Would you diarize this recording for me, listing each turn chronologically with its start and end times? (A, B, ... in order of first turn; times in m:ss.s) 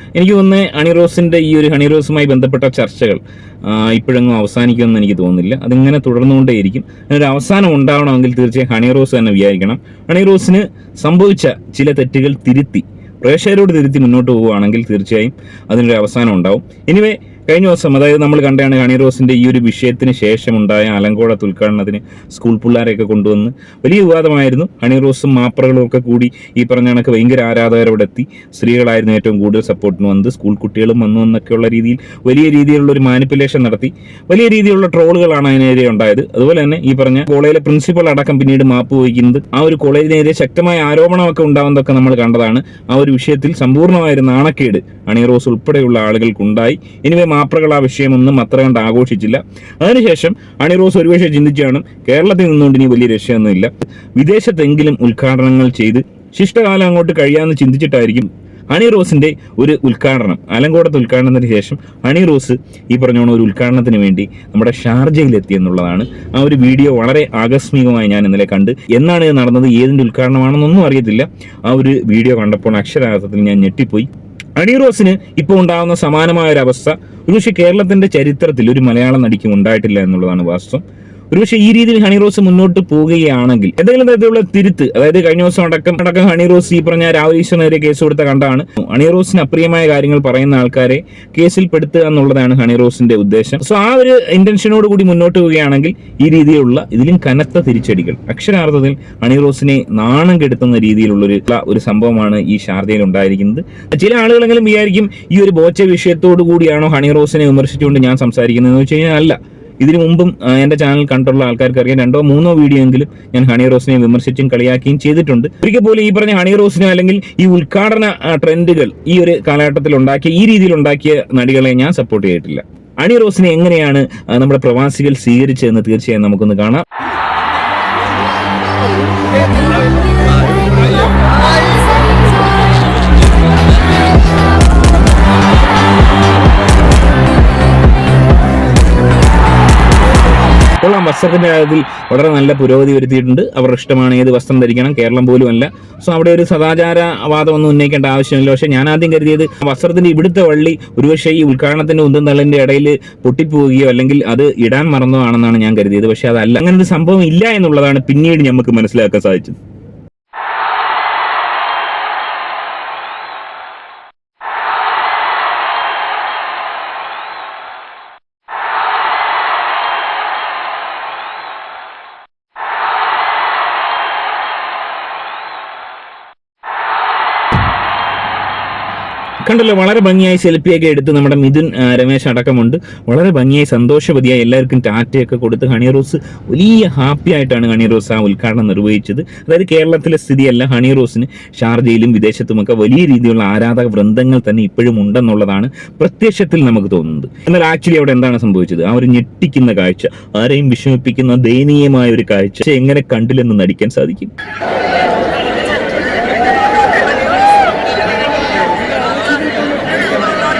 0:00.1-2:06.8 A
2:20.8-2:39.6 A
2:59.4-3:24.3 A